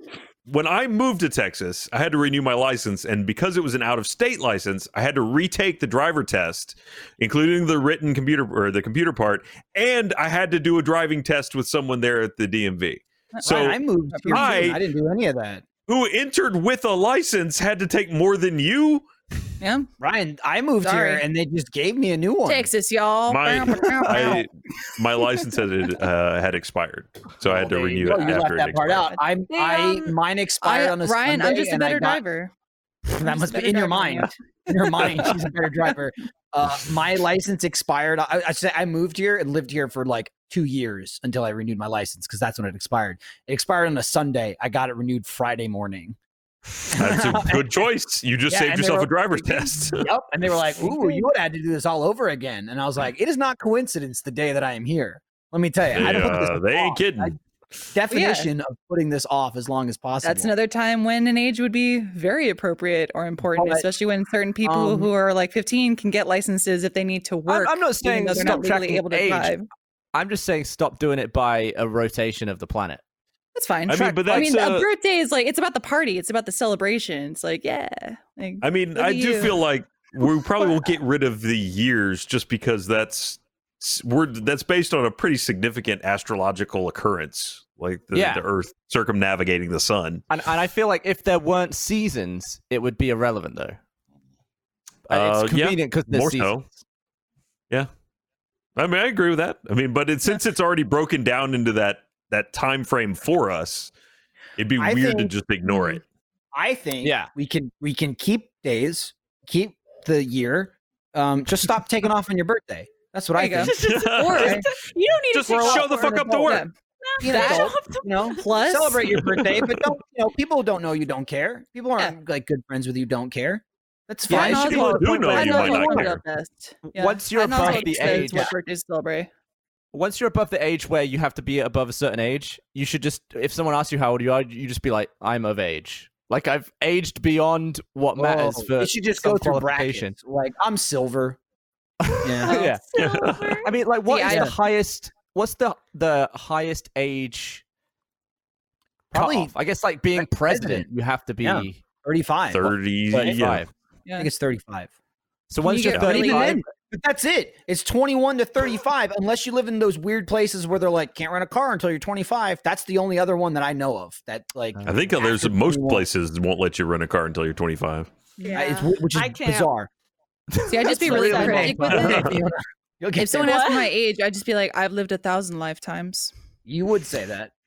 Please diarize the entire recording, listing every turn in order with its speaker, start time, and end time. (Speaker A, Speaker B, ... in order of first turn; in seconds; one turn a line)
Speaker A: 0.5-14.8
Speaker B: 13.3-14.6
Speaker C: 13.4-15.7
Speaker A: 15.9-19.1
Speaker B: 19.6-19.9
Speaker C: 20.0-22.7
Speaker B: 20.8-21.2
Speaker B: 22.4-24.5
Speaker A: 23.3-29.1
Speaker C: 27.5-32.2
Speaker D: 29.5-30.1
Speaker B: 30.6-32.5
Speaker C: 33.1-46.2
Speaker B: 33.2-35.4
Speaker C: 46.9-47.9
Speaker A: 46.9-50.1
Speaker C: 48.5-49.2
Speaker B: 49.4-49.7
Speaker C: 50.0-57.4
Speaker B: 50.8-51.2
Speaker A: 55.9-57.4
Speaker C: 57.9-60.5
Speaker B: 58.1-58.5
Speaker B: 60.2-69.7
Speaker C: 63.5-63.9
Speaker C: 64.6-65.1
Speaker E: 67.5-69.6
Speaker E: 70.1-73.0
Speaker B: 73.5-79.6
Speaker A: 73.9-74.9
Speaker E: 74.0-74.4
Speaker A: 78.6-90.2
Speaker B: 80.2-80.7
Speaker E: 88.1-88.5
Speaker E: 90.3-93.8
Speaker E: 95.1-96.5
Speaker A: 95.1-96.7
Speaker A: 98.8-103.9
Speaker A: 104.6-106.0
Speaker C: 104.8-105.3
Speaker B: 105.7-106.0
Speaker C: 106.5-114.6
Speaker E: 107.0-107.3
Speaker B: 113.4-114.7
Speaker D: 113.7-116.5
Speaker A: 113.8-114.6
Speaker A: 115.3-116.7
Speaker B: 115.5-115.9
Speaker C: 115.7-116.5
Speaker B: 116.4-116.7
Speaker D: 117.0-118.4
Speaker C: 117.2-125.2
Speaker B: 117.2-117.7
Speaker B: 118.3-119.0
Speaker E: 124.3-126.1
Speaker B: 124.3-129.3
Speaker A: 124.4-126.2
Speaker E: 126.9-128.5
Speaker C: 127.6-128.5
Speaker E: 129.9-140.1
Speaker C: 138.2-141.4
Speaker E: 142.0-142.8
Speaker C: 142.2-142.6
Speaker D: 142.4-143.8
Speaker A: 143.0-143.6
Speaker E: 143.6-147.6
Speaker B: 144.1-144.5
Speaker C: 144.2-144.6
Speaker C: 149.1-149.5
Speaker E: 149.1-151.8
Speaker C: 150.2-150.9
Speaker C: 151.4-153.4
Speaker A: 152.5-153.7
Speaker E: 153.1-153.7
Speaker C: 154.2-154.9
Speaker E: 155.5-156.7
Speaker B: 155.6-156.6
Speaker C: 156.0-166.1
Speaker E: 164.8-165.1
Speaker A: 164.9-168.1
Speaker B: 168.4-168.6
Speaker D: 168.4-169.7
Speaker C: 168.6-169.9
Speaker E: 170.5-172.3
Speaker B: 170.7-172.3
Speaker C: 170.8-173.6
Speaker D: 171.1-171.7
Speaker A: 171.9-172.3
Speaker B: 173.2-176.3
Speaker D: 173.4-173.9
Speaker C: 176.7-177.6